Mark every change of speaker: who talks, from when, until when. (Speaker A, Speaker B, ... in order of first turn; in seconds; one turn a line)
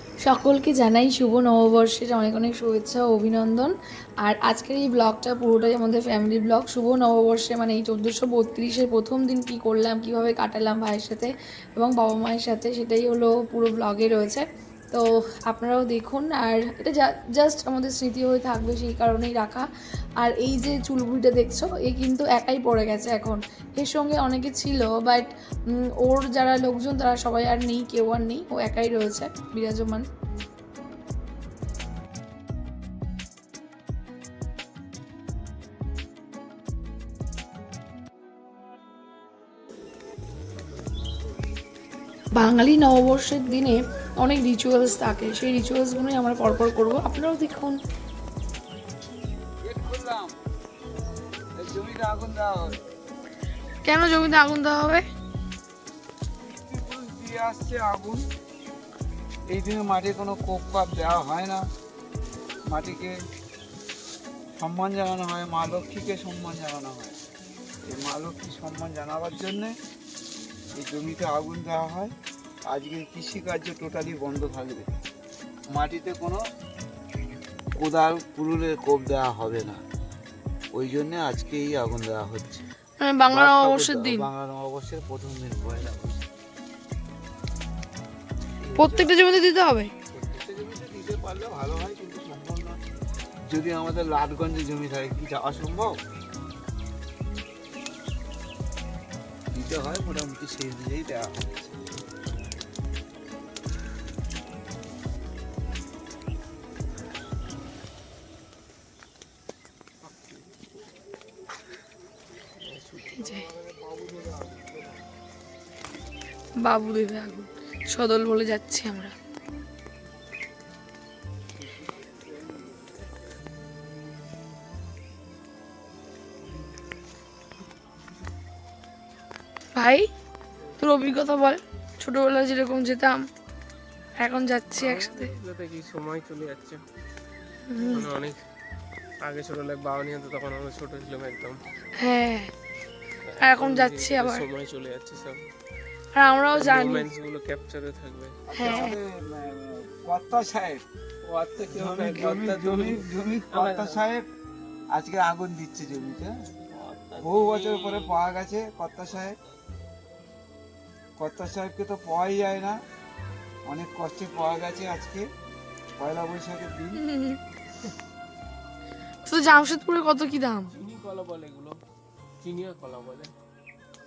Speaker A: 0.2-19.7
Speaker A: 20.2-30.1
Speaker A: 42.3-47.8
Speaker B: 49.6-50.4
Speaker B: 51.5-52.8
Speaker A: 53.9-55.0
Speaker B: 56.5-58.2
Speaker B: 59.5-61.6
Speaker B: 62.7-63.1
Speaker B: 64.6-67.2
Speaker B: 67.9-69.7
Speaker B: 70.7-72.1
Speaker B: 72.7-74.9
Speaker B: 75.7-76.4
Speaker B: 77.8-79.8
Speaker B: 80.7-82.7
Speaker A: 83.0-84.2
Speaker B: 83.3-86.3
Speaker B: 88.6-89.1
Speaker A: 88.8-89.9
Speaker B: 90.1-92.8
Speaker B: 93.5-96.0
Speaker B: 99.5-101.8
Speaker C: 112.6-113.3
Speaker B: 113.2-115.0
Speaker A: 116.6-119.1
Speaker B: 121.6-123.3
Speaker A: 129.8-130.0
Speaker A: 130.8-133.2
Speaker A: 134.2-135.3
Speaker C: 134.8-136.8
Speaker A: 137.7-138.1
Speaker C: 137.8-138.4
Speaker C: 139.2-141.6
Speaker A: 142.0-142.5
Speaker C: 143.2-145.4
Speaker A: 143.4-144.4
Speaker A: 146.2-147.1
Speaker C: 146.5-148.3
Speaker B: 148.5-150.8
Speaker A: 148.6-148.9
Speaker C: 151.3-154.0
Speaker B: 151.7-154.2
Speaker B: 154.9-156.3
Speaker C: 156.7-158.2
Speaker B: 157.2-159.4
Speaker B: 161.2-162.8
Speaker B: 163.7-165.2
Speaker B: 166.0-167.0
Speaker A: 167.0-167.4
Speaker A: 169.2-170.7
Speaker C: 170.7-171.8
Speaker C: 172.4-173.3